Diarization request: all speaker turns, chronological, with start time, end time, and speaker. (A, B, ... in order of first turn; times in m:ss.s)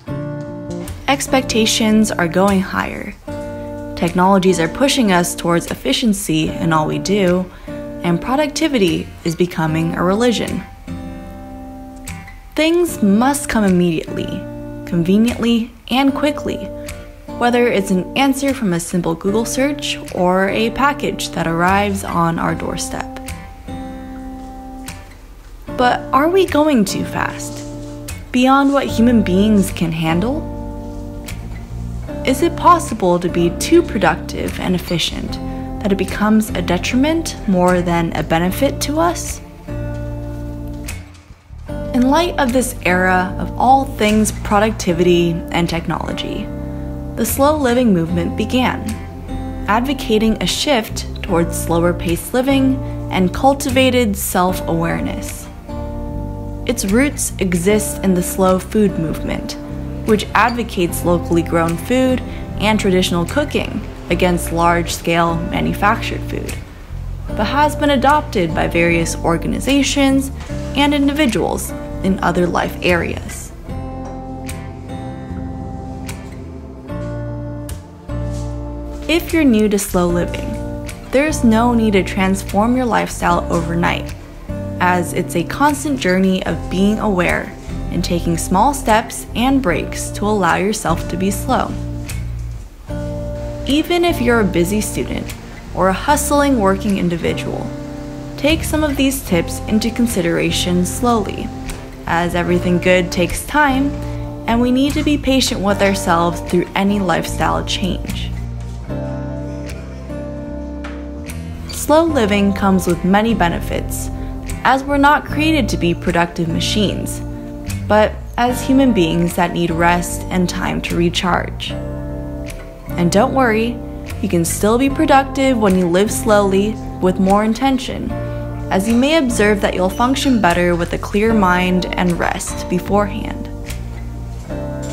0:01.1-0:03.2 A
0:03.9-0:07.5 A
0:08.0-0:10.6 A
0:12.5-0:16.7 A
0:17.4-0:23.2 A
0:25.8-0:27.6 A
0:28.3-0:30.5 A
0:32.2-0:39.4 A
0:41.9-0:46.5 A
0:47.2-0:49.0 A
0:49.7-0:55.5 A
0:56.6-1:06.6 A
1:07.3-1:13.5 A
1:19.1-1:24.1 A
1:24.8-1:31.8 A
1:33.6-1:37.8 A
1:38.4-1:41.5 A
1:42.0-1:48.3 A
1:51.7-1:54.1 A
1:54.6-1:57.2 A
1:57.9-2:01.8 A
2:03.0-2:08.2 A
2:08.7-2:13.5 A